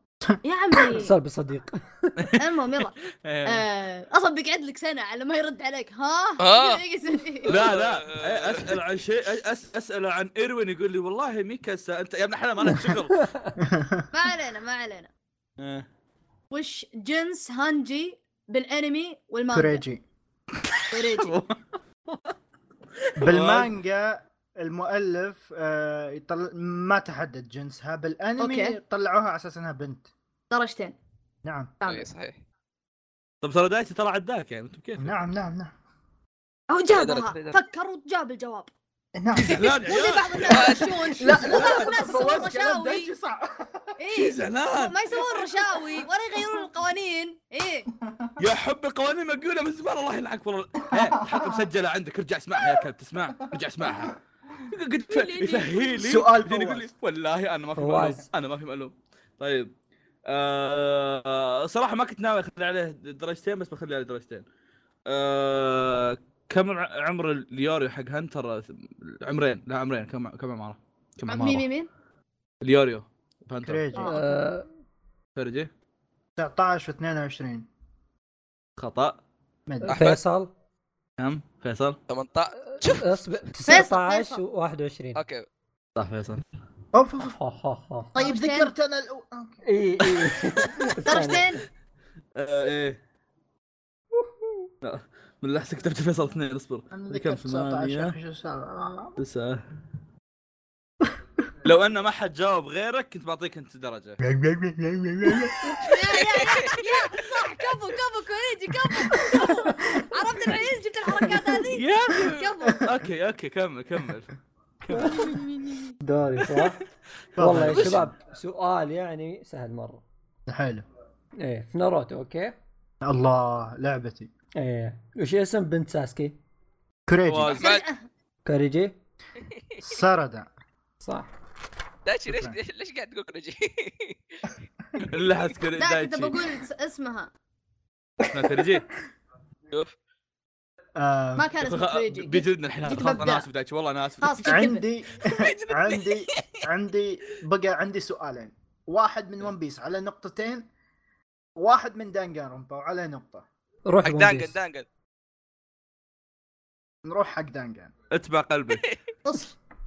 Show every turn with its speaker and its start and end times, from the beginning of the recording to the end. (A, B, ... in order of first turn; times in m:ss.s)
0:00.4-0:01.1 A
0:00.9-0:02.2 B
0:02.2-0:03.6 C
0:02.4-0:02.9 A
0:03.4-0:07.6 A
0:06.4-0:06.8 D
0:07.4-0:08.8 D
0:07.5-0:13.3 C
0:13.2-0:13.5 B
0:13.6-0:14.1 E
0:14.1-0:15.1 A
0:15.6-0:15.9 C
0:16.5-0:19.8 A
0:19.5-0:20.0 E
0:20.7-0:21.6 C
0:20.9-0:21.4 A
0:23.2-0:23.7 C
0:23.2-0:30.1 E
0:28.4-0:28.8 A
0:30.5-0:31.0 A
0:31.4-0:31.7 E
0:31.8-0:32.1 A
0:31.9-0:32.4 D
0:33.4-0:35.1 C
0:35.0-0:35.7 E
0:36.7-0:38.7 A
0:37.0-0:37.6 D
0:39.2-0:39.8 E
0:39.4-0:42.2 C
0:39.6-0:43.1 A
0:40.5-0:40.9 D
0:41.1-0:44.0 E
0:44.0-0:47.9 A
0:44.1-0:45.3 C
0:48.0-0:48.4 E
0:48.4-0:54.2 C
0:50.9-0:51.7 E
0:54.7-0:59.7 C
0:55.1-0:56.0 A
0:56.0-0:56.9 E
0:57.8-0:58.2 B
1:00.3-1:04.4 C
1:05.1-1:11.7 C
1:11.3-1:11.9 A
1:12.6-1:13.9 C
1:13.6-1:14.2 E
1:13.9-1:14.2 A
1:14.0-1:14.7 B
1:15.4-1:15.7 C
1:16.4-1:17.7 E
1:18.8-1:19.2 C
1:19.7-1:20.0 E
1:19.8-1:20.5 B
1:19.9-1:20.2 D
1:21.2-1:22.0 C
1:22.1-1:23.1 D
1:22.7-1:25.2 B
1:23.7-1:24.4 A
1:25.2-1:25.4 D
1:26.0-1:26.4 C
1:26.9-1:27.4 E
1:27.2-1:28.2 B
1:28.2-1:28.7 A
1:28.2-1:29.6 E
1:29.6-1:31.6 B
1:31.0-1:31.6 A
1:32.4-1:33.0 C
1:34.2-1:34.5 B
1:34.8-1:38.2 C
1:36.9-1:39.2 E
1:39.2-1:39.6 C
1:41.6-1:44.2 C
1:44.2-1:45.8 E
1:45.8-1:52.9 A
1:46.1-1:46.8 D
1:49.1-1:49.5 E
1:51.7-1:55.8 C
1:52.6-1:52.9 E
1:54.9-1:55.2 B
1:55.2-1:55.8 A
1:56.0-1:56.8 B
1:57.4-1:58.1 E
1:57.4-2:00.0 B
1:57.5-1:58.0 C
2:00.5-2:00.8 E
2:01.4-2:02.6 B
2:03.0-2:04.3 E
2:04.6-2:06.4 B
2:07.1-2:07.6 E
2:07.3-2:07.7 C
2:07.5-2:08.1 A
2:07.6-2:07.8 D
2:08.4-2:08.9 B
2:09.8-2:10.5 E
2:11.0-2:11.3 B
2:12.1-2:14.2 D
2:12.3-2:12.6 E
2:15.0-2:16.4 C
2:15.8-2:17.3 A
2:18.3-2:18.9 C
2:21.0-2:21.5 E
2:21.4-2:23.5 A
2:21.6-2:24.7 C
2:24.2-2:24.9 A
2:24.5-2:30.7 E
2:31.6-2:33.4 E
2:33.9-2:34.6 B
2:34.0-2:34.9 D
2:37.0-2:37.9 E
2:38.1-2:38.9 C
2:39.2-2:39.5 A